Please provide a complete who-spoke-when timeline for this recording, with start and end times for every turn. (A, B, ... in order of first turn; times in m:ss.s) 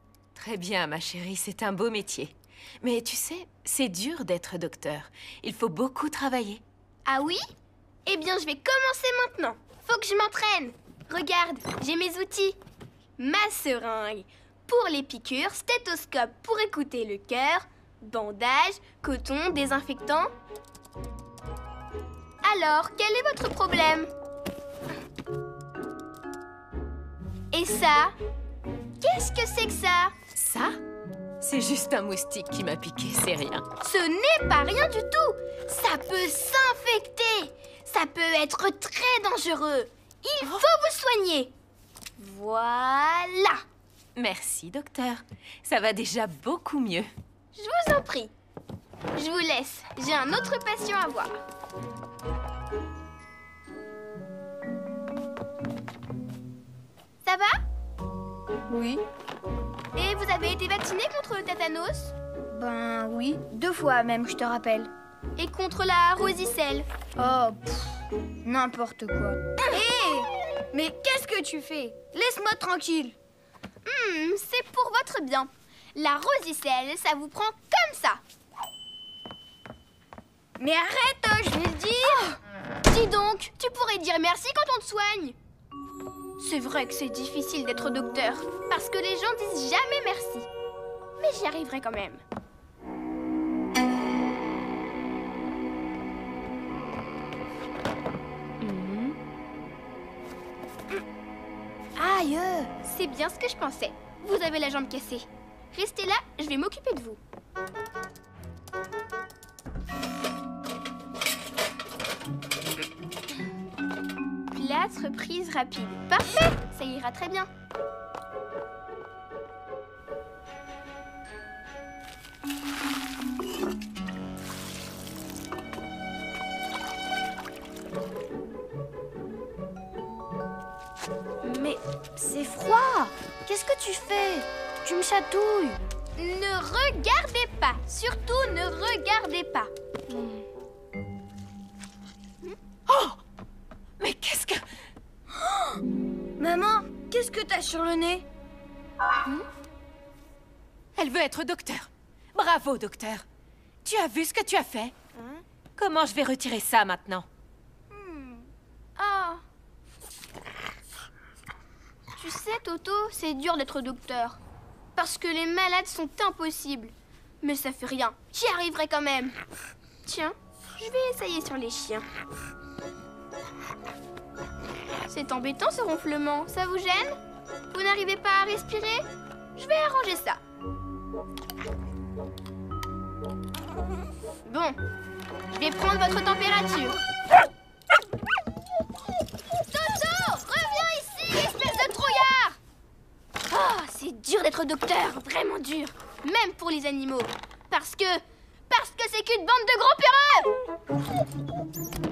0:00.3-0:06.6 A
0:07.0-0:07.4 B
0:08.0-0:12.6 B
0:13.2-0:20.3 B
0:22.4-0:24.1 B
0:27.5-0:28.1 B
0:29.0-0:30.1 B
0:30.3-0:30.8 A
0:31.4-0:33.6 A
0:33.8-0:41.5 B
0:42.2-0:43.6 B
0:44.2-0:47.1 A
0:47.5-0:48.3 B
0:49.1-0:51.4 B
0:57.2-0:57.6 B
0:58.7-0:59.0 C
0:59.9-1:02.1 B
1:02.5-1:04.9 C
1:05.4-1:06.9 B
1:07.2-1:13.1 C
1:13.8-1:18.2 B
1:20.6-1:22.4 C
1:22.8-1:25.4 B
1:26.4-1:30.5 B
1:31.2-1:32.2 B
1:38.6-1:39.1 A
1:42.0-1:42.7 C
1:42.8-1:47.2 B
1:54.5-1:57.5 B
2:11.4-2:15.8 C
2:16.2-2:19.7 B
2:22.9-2:23.2 A
2:24.0-2:24.6 A
2:26.4-2:28.2 C
2:31.0-2:33.2 A
2:33.8-2:34.9 A
2:35.8-2:37.3 A
2:37.9-2:38.5 C
2:39.0-2:39.4 B
2:42.2-2:44.4 B
2:45.0-2:49.4 B
2:50.0-2:52.1 B
2:55.1-2:57.2 B
2:57.7-3:00.4 B
3:04.4-3:04.8 B
3:05.5-3:07.0 B
3:09.5-3:12.6 B
3:13.5-3:20.5 B